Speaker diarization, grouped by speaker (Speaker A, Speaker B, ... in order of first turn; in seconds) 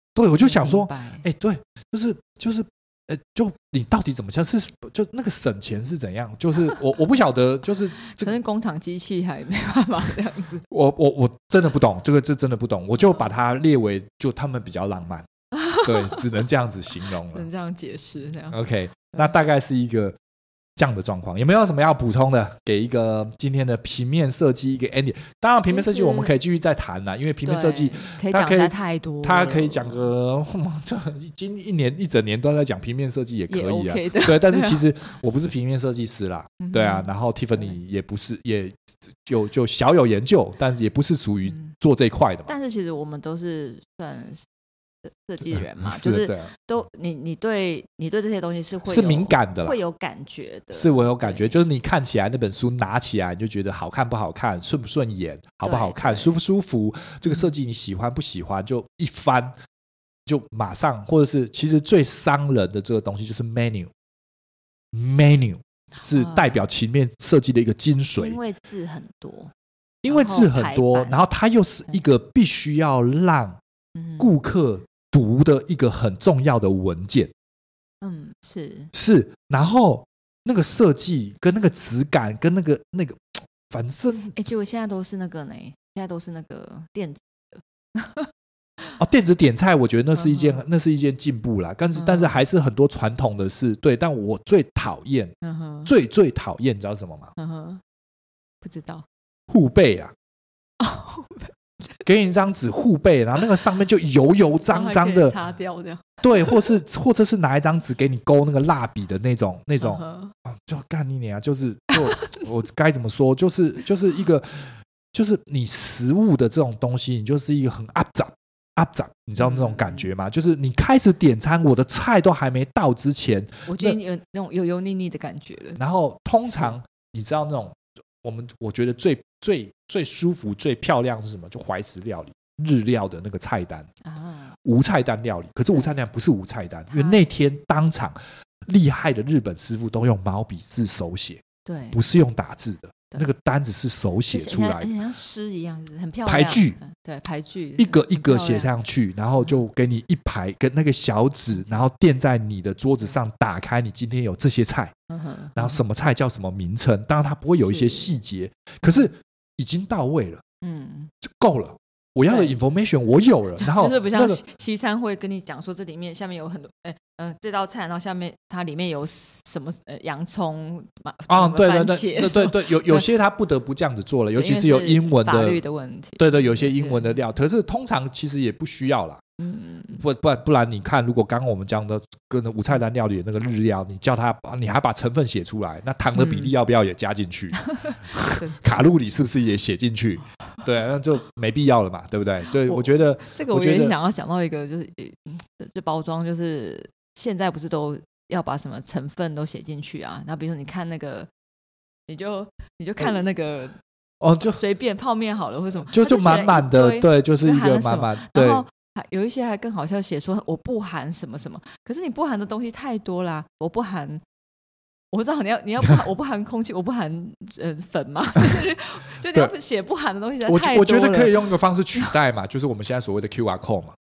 Speaker A: 0.1-8.3, 10.7-17.5, 18.5-20.2, 20.8-42.5, 45.5-46.5, 48.8-49.8, 50.7-59.5, 60.2-63.9, 64.9-68.4, 70.0-73.6, 74.2-77.3, 78.9-84.3, 89.0-95.3, 95.8-97.3, 99.5-100.1, 102.0-105.3, 106.2-124.0, 125.8-133.9, 134.6-138.1, 138.7-141.4, 141.9-144.9, 146.2-146.8, 147.8-154.9, 155.6-160.4, 161.2-164.4, 171.3-175.6, 176.2-179.2, 180.0-193.9, 204.2-204.6, 205.8-208.6, 220.4-223.9
Speaker B: 0.4-1.2, 8.1-10.6, 15.5-16.2, 17.3-18.6, 25.7-26.3, 27.4-30.1, 33.5-34.8, 36.6-37.8, 41.5-41.7, 42.5-44.4, 45.0-51.6, 55.6-56.4, 57.2-57.5, 66.0-66.6, 68.2-69.5, 70.1-71.2, 73.9-74.3, 78.0-78.9, 84.3-87.2, 87.9-88.3, 90.1-90.6, 91.9-92.4, 95.4-95.9, 97.4-97.8, 98.6-99.0, 100.8-101.5, 104.7-106.7, 109.8-110.3, 112.1-112.4, 119.4-120.1, 123.7-125.8, 126.5-126.7, 134.0-134.6, 136.9-137.2, 141.6-142.0, 144.3-148.7, 151.5-151.8, 155.1-155.8, 157.6-158.2, 158.8-159.1, 160.6-161.1, 162.2-162.6, 163.6-173.1, 174.3-177.2, 179.4-180.0, 186.1-186.5, 187.8-188.6, 192.6-201.3, 202.1-203.8, 204.5-214.2, 215.1-222.1